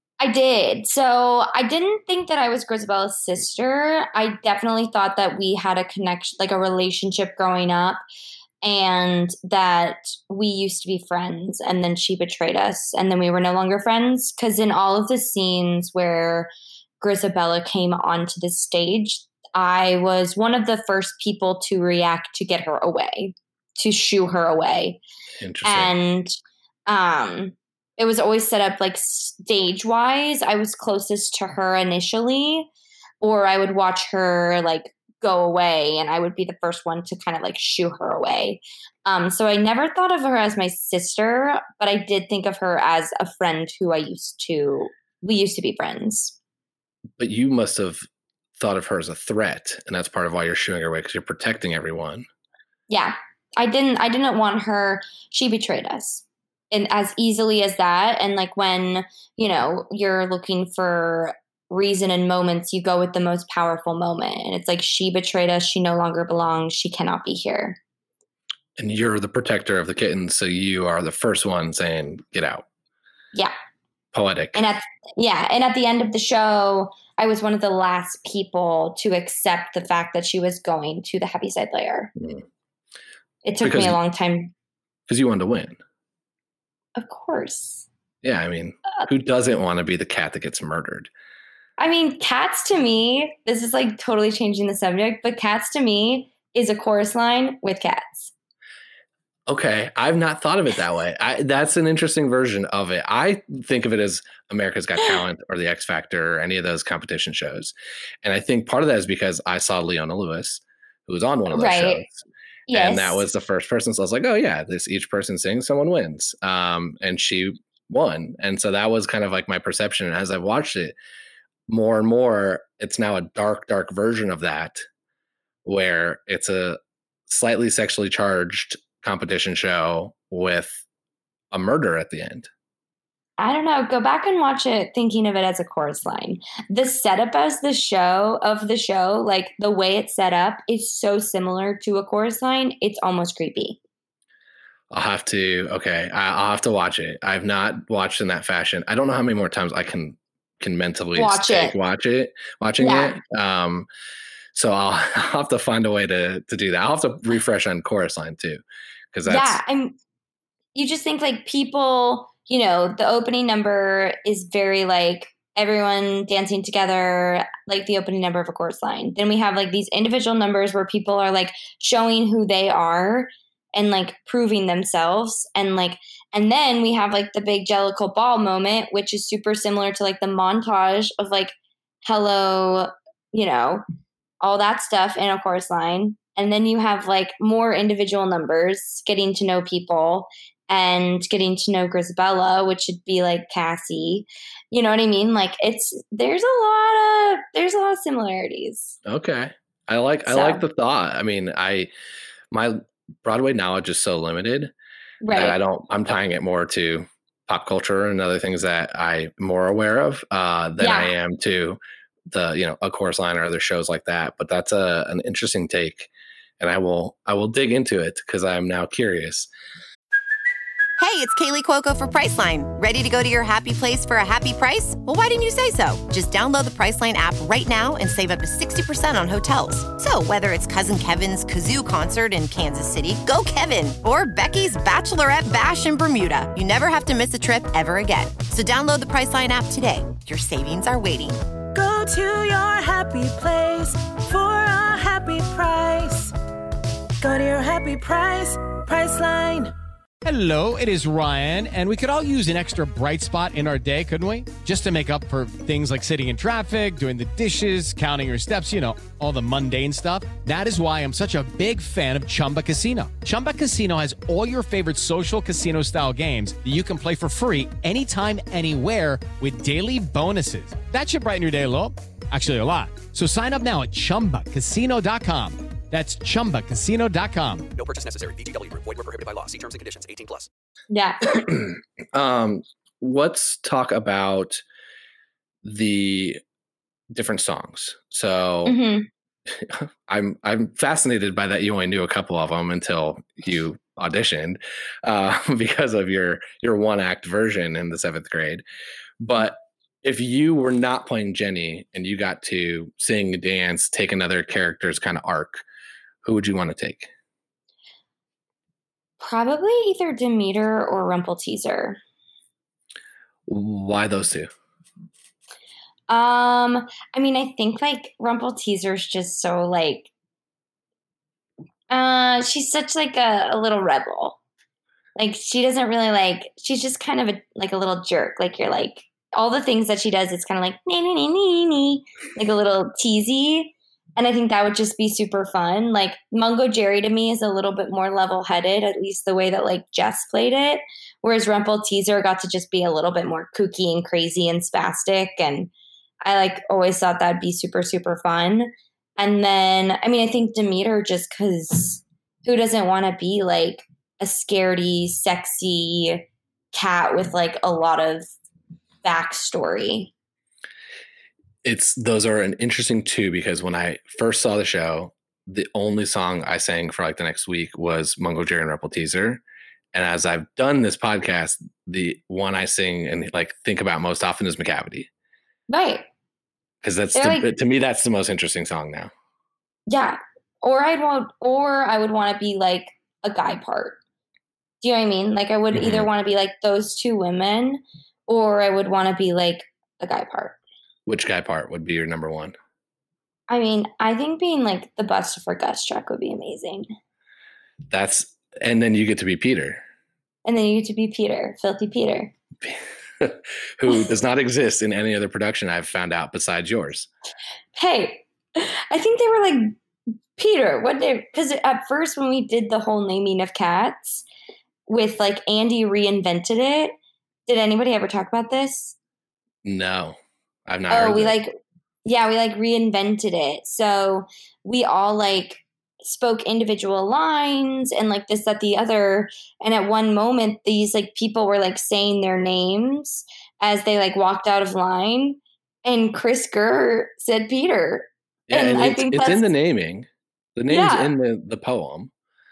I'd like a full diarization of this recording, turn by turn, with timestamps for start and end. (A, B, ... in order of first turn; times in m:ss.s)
0:00.2-0:08.0 A
0:08.6-0:16.5 A
0:17.0-0:25.0 A
0:25.4-0:26.0 B
0:25.6-0:26.3 A
0:26.9-0:32.7 A
0:33.2-0:46.4 A
0:47.2-0:48.0 B
0:48.6-0:52.3 B
0:52.9-1:07.8 A
1:08.8-1:12.6 B
1:14.1-1:14.6 B
1:14.5-1:22.1 A
1:22.2-1:22.4 B
1:23.4-1:24.5 A
1:23.6-1:24.0 B
1:25.1-1:25.8 B
1:27.0-1:27.8 A
1:28.2-1:31.1 B
1:31.8-1:38.3 A
1:39.5-1:52.2 B
1:51.5-1:52.0 A
1:52.7-1:53.2 A
1:52.7-2:01.0 B
2:01.7-2:04.8 B
2:05.6-2:10.8 B
2:11.5-2:12.5 B
2:13.4-2:23.8 A
2:24.9-2:33.9 B
2:31.2-2:31.8 A
2:32.8-2:33.1 A
2:34.5-2:38.6 B
2:39.1-2:39.6 B
2:39.2-2:39.9 A
2:40.7-3:03.8 A
3:04.4-3:19.0 A
3:19.0-3:21.9 B
3:20.3-3:20.6 A
3:22.5-3:24.7 B
3:25.2-3:25.6 A
3:25.3-3:39.5 B
3:30.8-3:31.1 A
3:41.0-4:01.4 C
4:01.7-4:06.3 D
4:07.2-4:09.7 D
4:10.2-4:37.7 E
4:37.7-4:40.5 F
4:40.9-4:41.3 A
4:41.4-4:44.6 B
4:45.6-4:46.4 B
4:47.1-4:48.8 B
4:48.6-4:49.1 A
4:49.5-4:58.6 B
4:59.2-5:05.6 B
5:06.2-5:07.1 B
5:09.2-5:12.0 A
5:13.5-5:14.5 B
5:16.1-5:20.1 A
5:21.9-5:24.4 A
5:25.2-5:45.7 A
5:46.2-5:58.3 A
5:59.0-6:00.1 A
6:01.6-6:09.4 B
6:09.9-6:15.1 B
6:15.7-6:16.0 A
6:16.8-6:19.1 B
6:17.1-6:17.5 A
6:19.9-6:24.0 A
6:24.8-6:30.6 A
6:25.7-6:26.1 B
6:31.0-6:32.5 B
6:33.5-6:36.9 A
6:37.9-6:39.8 B
6:40.4-6:42.3 A
6:42.6-6:47.1 B
6:47.8-6:49.7 A
6:50.4-6:54.2 A
6:54.9-6:56.9 A
6:57.5-6:59.0 A
6:59.6-7:01.3 B
7:00.9-7:01.5 A
7:02.0-7:19.5 A
7:18.5-7:22.1 B
7:20.7-7:21.1 A